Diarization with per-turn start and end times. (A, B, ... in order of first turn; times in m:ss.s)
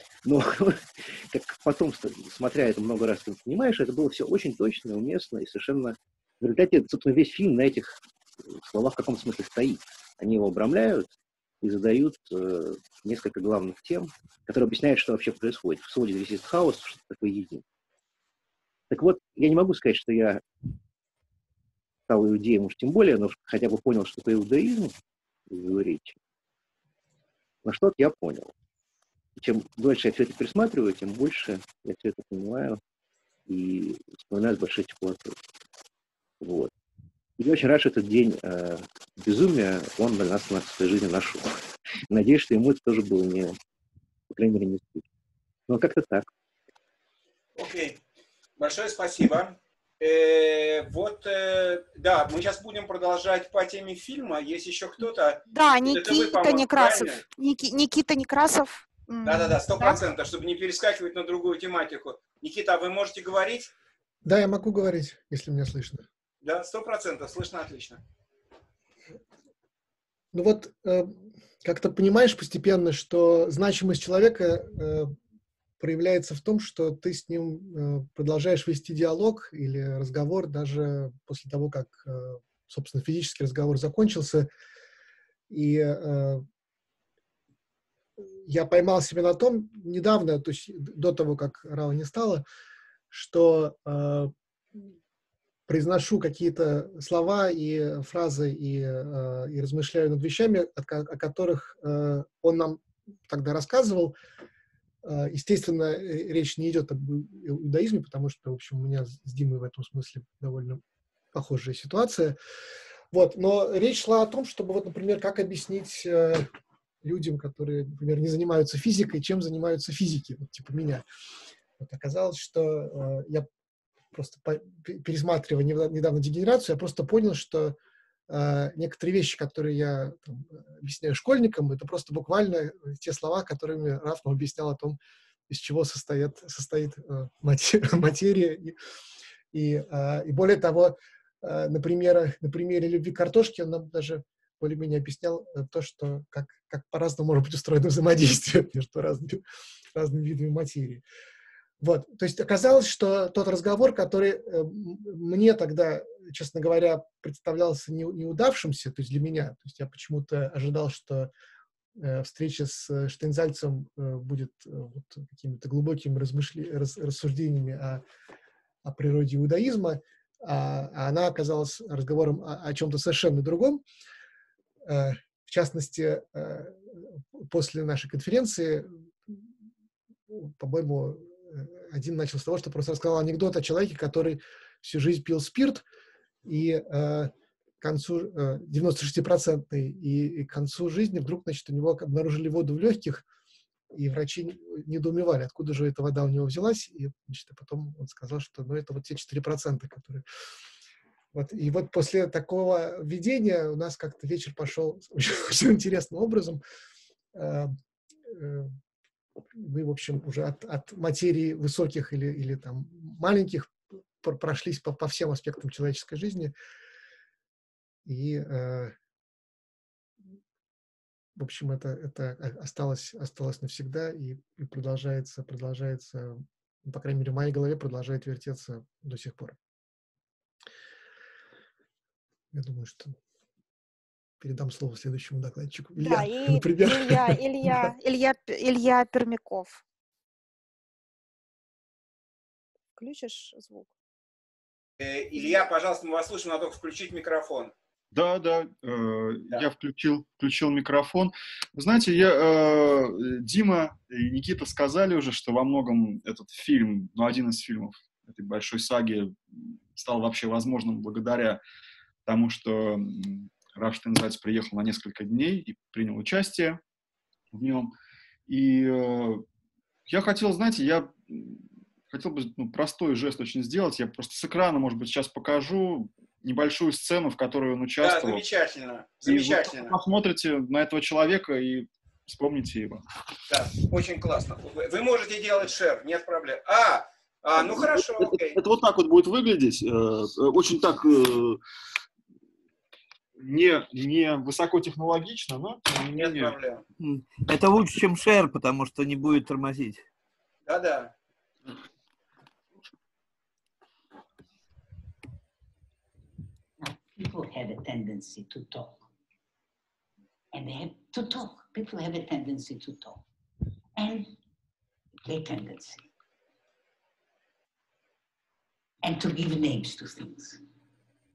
0:00.2-0:17.6 A
0:18.9-0:20.4 A
0:22.1-0:24.9 A
0:25.5-0:26.2 A
0:27.6-0:28.5 A
0:29.4-0:32.8 A
0:33.5-0:35.4 A
0:36.4-0:36.7 A
0:37.4-0:43.5 A
0:44.3-0:45.0 A
0:45.7-0:46.2 A
0:47.6-0:48.0 B
0:48.6-0:57.2 B
0:55.5-1:00.0 C
0:59.2-1:03.7 B
1:04.2-1:06.0 D
1:06.4-1:08.0 B
1:10.3-1:15.1 D
1:15.8-1:24.5 D
1:25.5-1:26.4 D
1:28.4-1:32.4 D
1:33.1-1:34.8 D
1:35.7-1:44.1 D
1:45.0-1:50.8 D
1:51.3-1:52.4 D
1:53.1-1:56.5 D
1:57.0-2:01.0 D
2:01.8-2:03.5 D
2:04.1-2:07.8 D
2:08.3-2:15.0 D
2:15.5-2:18.8 D
2:19.5-2:29.4 D
2:29.9-2:31.0 D
2:31.8-2:41.3 D
2:42.0-2:48.0 D
2:48.8-2:53.8 D
2:54.8-2:59.4 D
3:00.3-3:05.8 D
3:06.4-3:13.2 D
3:13.9-3:20.2 D
3:21.3-3:26.6 D
3:27.3-3:27.7 D
3:28.3-3:28.7 D
3:29.5-3:36.5 D
3:38.0-3:38.9 D
3:41.4-3:49.6 D
3:52.5-3:53.2 D
3:54.4-3:57.9 D
3:56.0-3:59.8 C
4:03.0-4:03.9 C
4:05.0-4:07.7 B
4:08.1-4:21.6 E
4:22.2-4:26.8 E
4:27.5-4:27.9 E
4:28.5-4:29.4 E
4:30.1-4:38.4 E
4:38.0-4:39.9 B
4:39.2-4:43.0 E
4:43.5-4:48.6 B
4:47.6-4:51.6 E
4:53.4-4:56.6 E
4:56.1-4:56.8 B
4:57.0-5:00.0 F
5:00.7-5:01.1 B
5:06.8-5:09.1 G
5:10.5-5:13.2 G
5:14.0-5:14.3 G
5:15.2-5:16.1 G
5:19.0-5:20.6 G